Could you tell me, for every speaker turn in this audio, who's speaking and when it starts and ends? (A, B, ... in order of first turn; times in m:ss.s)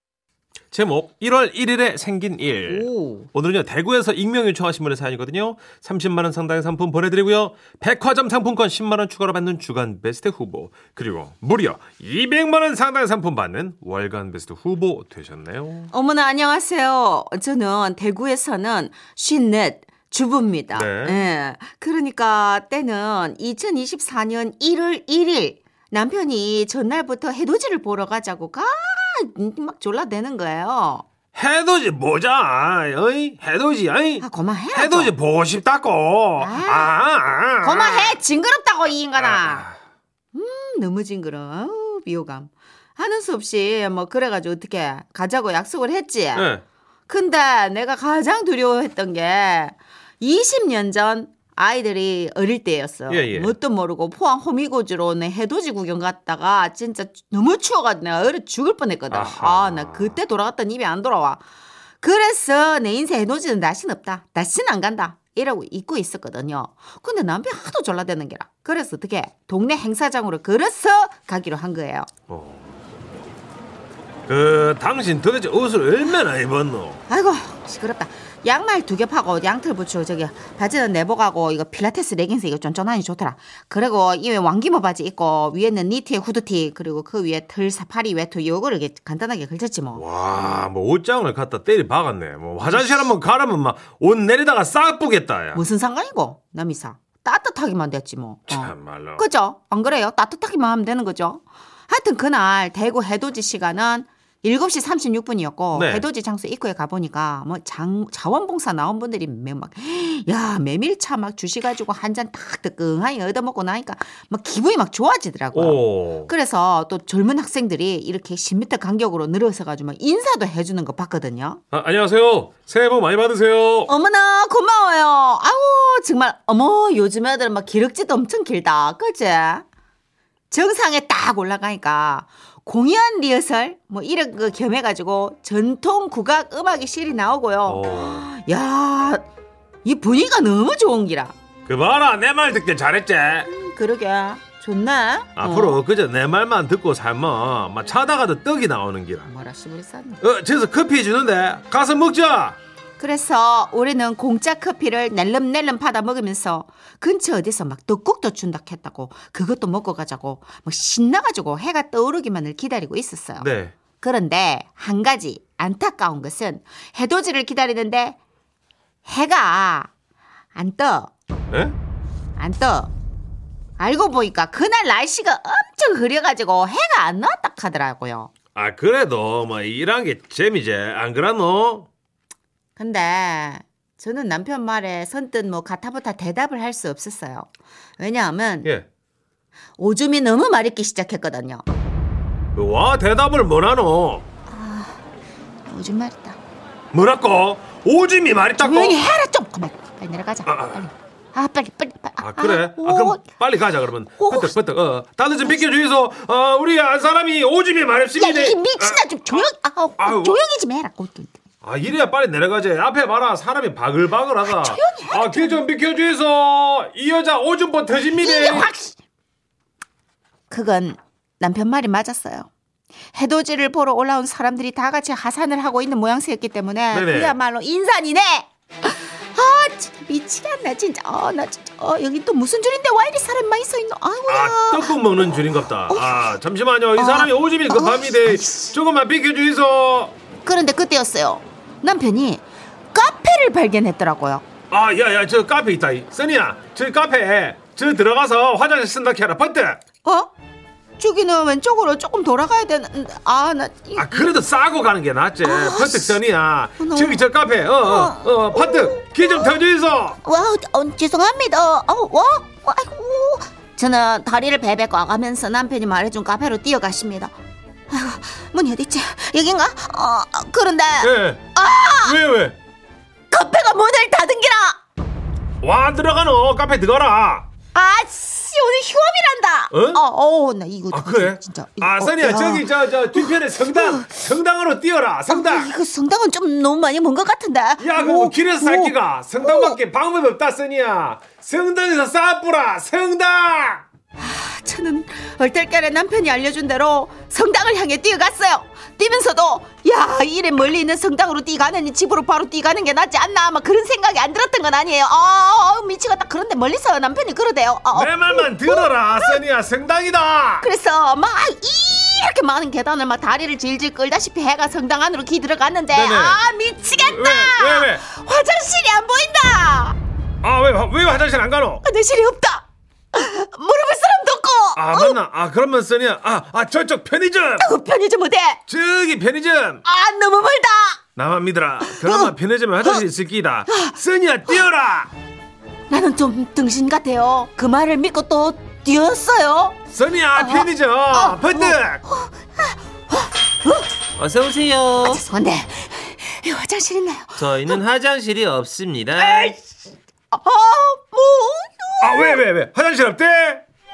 0:00.7-0:15.9 A
0:02.7-0:03.3 B
0:15.9-0:31.0 B
0:20.8-0:21.2 A
0:31.4-0:38.2 A
0:34.2-0:35.1 B
0:36.4-0:37.0 B
0:37.6-0:39.7 B
0:39.2-0:39.8 A
0:40.3-0:46.5 B
0:46.4-0:46.6 A
0:47.1-1:01.4 B
0:53.1-0:53.6 A
0:59.1-1:00.2 A
1:02.0-1:12.1 B
1:12.3-1:12.7 A
1:14.3-1:17.0 A
1:17.1-1:30.0 B
1:30.0-1:35.6 A
1:32.6-1:33.0 B
1:35.5-2:01.6 B
1:38.5-1:39.2 A
1:45.7-1:46.1 A
1:55.5-1:56.3 A
2:01.7-2:03.9 A
2:03.9-2:09.7 B
2:10.5-2:19.3 B
2:17.7-2:18.3 A
2:19.8-2:21.4 B
2:21.7-2:23.5 A
2:23.5-2:25.8 B
2:25.4-2:29.3 A
2:29.2-2:30.2 B
2:30.2-2:32.6 A
2:33.0-2:48.2 B
2:43.4-2:43.8 A
2:49.1-2:49.9 B
2:50.5-2:51.1 B
2:51.5-2:51.8 A
2:52.4-2:52.9 B
2:53.8-2:58.3 B
2:58.6-3:01.9 A
3:02.8-3:08.7 B
3:09.8-3:11.6 B
3:12.6-3:14.2 A
3:14.5-3:15.0 B
3:15.7-3:16.4 B
3:16.9-3:19.0 A
3:18.6-3:23.2 B
3:20.5-3:20.8 A
3:22.2-3:30.4 A
3:24.2-3:24.6 B
3:28.2-3:31.4 B
3:31.6-3:38.7 A
3:34.4-3:35.7 B
3:38.1-3:39.0 B
3:40.5-3:42.5 B
3:43.1-3:55.0 B
3:46.9-3:47.4 A
3:54.3-4:00.1 A
3:55.9-3:56.2 B
3:57.0-3:58.8 B
4:00.4-4:04.5 B
4:04.7-4:09.8 A
4:10.0-4:10.3 B
4:11.0-4:14.3 B
4:14.0-4:20.2 A
4:15.4-4:16.2 B
4:16.8-4:17.2 B
4:17.8-4:19.6 B
4:20.2-4:27.4 B
4:27.9-4:32.2 B
4:31.0-4:32.6 A
4:33.3-4:34.8 B
4:35.6-4:37.5 A
4:37.7-4:44.2 B
4:39.7-4:40.0 A
4:40.9-4:45.7 A
4:45.3-4:49.8 B
4:47.8-4:53.8 A
4:54.2-5:09.4 B
5:07.9-5:10.7 A
5:10.6-5:20.0 B
5:15.9-5:18.0 A
5:20.4-5:21.8 A
5:21.8-5:25.2 B
5:24.8-5:27.7 A
5:27.6-5:28.6 B
5:28.7-5:29.8 A
5:29.8-5:31.0 B
5:31.2-5:35.1 A
5:31.8-5:33.0 B
5:33.7-5:34.7 B
5:35.9-5:39.8 B
5:39.9-5:42.0 A
5:40.4-5:43.9 B
5:44.2-5:45.2 A
5:45.0-5:47.8 B
5:47.4-5:49.6 A
5:49.2-5:49.6 B
5:50.3-5:52.4 B
5:52.0-5:53.6 A